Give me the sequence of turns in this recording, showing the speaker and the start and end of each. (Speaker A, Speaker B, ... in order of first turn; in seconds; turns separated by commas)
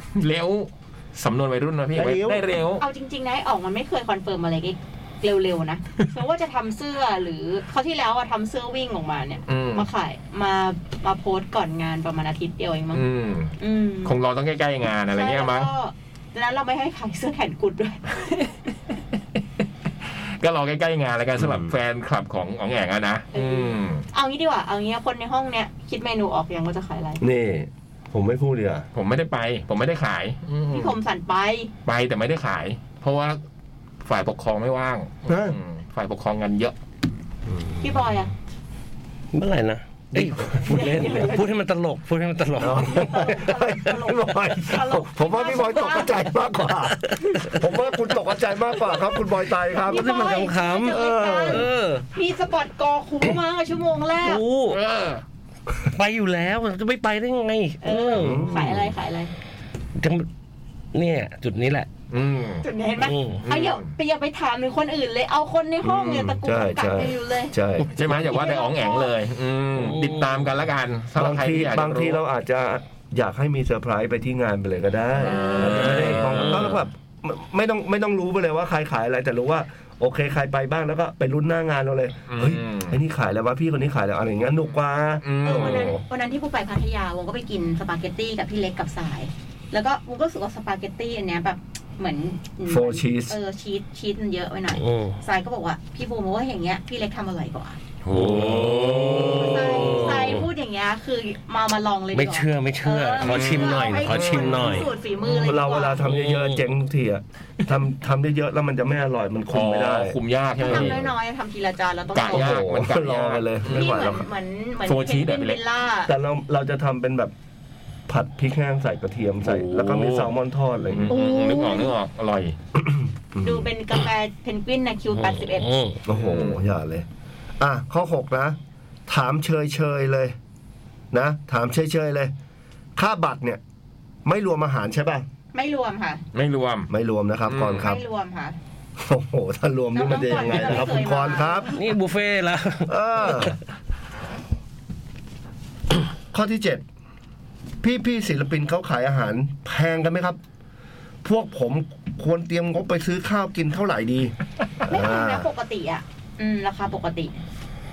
Speaker A: 0.1-2.8, Speaker B: 1.9-2.5, Speaker C: 2.8-13.0, Speaker A: 9.5-9.9, Speaker A: 12.9-15.7, Speaker C: 13.6-14.2, Speaker C: 15.1-18.5, Speaker A: 20.1-24.1, Speaker B: 21.4-21.7, Speaker C: 23.3-27.2, Speaker B: 27.2-28.9, Speaker A: 28.9-30.9, Speaker C: 30.7-31.7, Speaker A: 31.9-33.4, Speaker A: 34.0-36.8, Speaker B: 35.3-35.6, Speaker B: 37.5-38.0, Speaker C: 37.8-38.3, Speaker D: 39.3-43.3, Speaker A: 40.1-40.8, Speaker C: 40.5-41.5, Speaker C: 42.6-46.3, Speaker B: 42.6-51.7, Speaker D: 46.9-47.6, Speaker D: 49.8-52.1, Speaker C: 49.9-54.4, Speaker D: 54.2-54.8, Speaker A: 54.7-55.2, Speaker D: 55.8-58.5, Speaker C: 57.8-59.3, Speaker B: 58.1-58.9, Speaker D: 60.0-60.3, Speaker D: 60.9-61.9, Speaker A: 62.1-62.6, Speaker C: 62.6-67.5, Speaker D: 63.0-63.4, Speaker A: 63.5-63.9, Speaker A: 65.8-66.4, Speaker B: 66.4-67.9, Speaker A: 67.9-72.2, Speaker C: 68.1-69.1, Speaker D: 69.8-70.3, Speaker B: 71.2-86.0, Speaker A: 75.2-76.8, Speaker C: 75.2-75.9, Speaker D: 75.9-76.7, Speaker A: 82.3-83.0, Speaker A: 85.2-86.0, Speaker C: 85.4-97.8, Speaker B: 92.7-93.4, Speaker D: 94.7-95.2, Speaker D: 98.1-100.4, Speaker A: 98.1-100.4, Speaker B: 99.1-100.0, Speaker C: 99.4-106.0, Speaker D: 102.1-104.9, Speaker A: 103.2-104.9, Speaker B: 105.5-111.0, Speaker D: 106.0-106.6, Speaker A: 109.5-111.1, Speaker C: 110.6-112.6, Speaker A: 112.2-114.2, Speaker B: 112.3-114.3, Speaker C: 113.7-116.1, Speaker A: 114.8-115.6, Speaker B: 116.1-117.3, Speaker B: 118.1-121.2, Speaker A: 119.4-120.3, Speaker A: 120.9-122.6, Speaker C: 121.1-121.9, Speaker B: 122.8-123.7, Speaker C: 123.4-125.7, Speaker D: 125.2-126.0, Speaker B: 126.1-127.1, Speaker A: 126.1-126.6, Speaker B: 127.6-130.4, Speaker B: 131.1-132.3, Speaker B: 133.0-133.6, Speaker B: 134.2-135.3, Speaker C: 135.5-136.2, Speaker A: 136.3-136.9, Speaker B: 136.9-138.0, Speaker A: 137.5-137.9, Speaker C: 137.8-138.6, Speaker B: 139.0-141.7, Speaker C: 139.9-141.9, Speaker D: 141.8-143.5, Speaker B: 142.9-143.6, Speaker B: 146.3-146.8, Speaker B: 147.8-150.4, Speaker B: 151.2-154.3, Speaker B: 154.9-155.5, Speaker C: 154.9-157.3